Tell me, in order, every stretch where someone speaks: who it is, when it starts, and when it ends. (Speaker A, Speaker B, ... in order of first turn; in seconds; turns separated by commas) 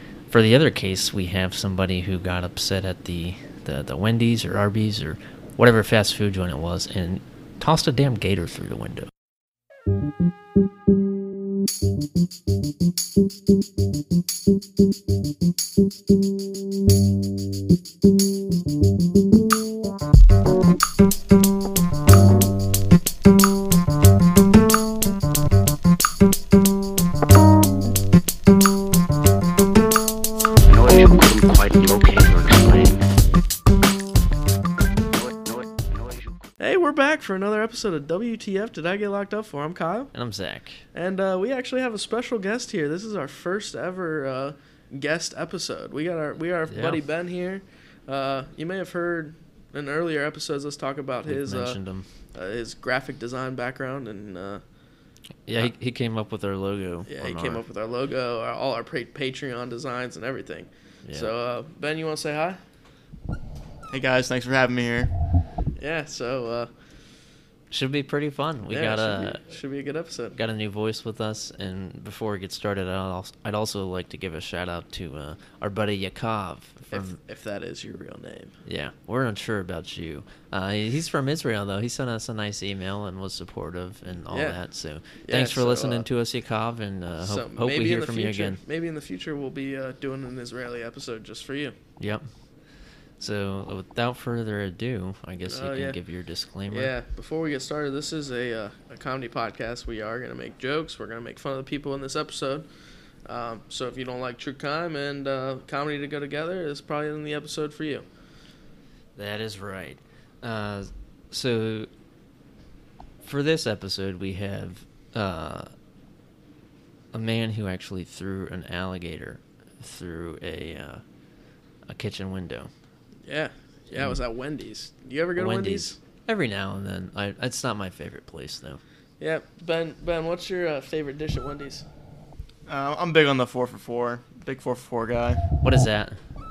Speaker A: 0.3-9.1, Speaker B: 30.7-33.0, Speaker C: 36.6-40.1, Speaker A: 40.1-40.9, Speaker C: 40.9-51.8, Speaker A: 46.7-47.0, Speaker A: 51.3-52.1, Speaker C: 52.3-54.6, Speaker A: 55.5-57.6, Speaker C: 57.1-62.6, Speaker A: 61.0-61.3, Speaker D: 63.9-65.1, Speaker C: 65.8-66.7, Speaker A: 67.7-69.5, Speaker C: 68.7-70.4, Speaker A: 70.3-77.2, Speaker C: 76.9-78.5, Speaker A: 78.7-88.6, Speaker C: 84.3-84.6, Speaker C: 85.2-86.1, Speaker C: 87.2-91.8, Speaker A: 92.0-92.2, Speaker A: 93.2-96.9, Speaker C: 95.4-96.0, Speaker C: 96.7-102.7, Speaker C: 103.3-108.1, Speaker A: 109.2-111.9, Speaker A: 113.2-115.7, Speaker A: 117.1-121.0, Speaker A: 121.9-122.7, Speaker C: 123.2-126.0, Speaker A: 123.9-124.2, Speaker A: 125.4-128.8, Speaker C: 129.2-131.9, Speaker D: 132.7-135.5, Speaker A: 135.6-136.2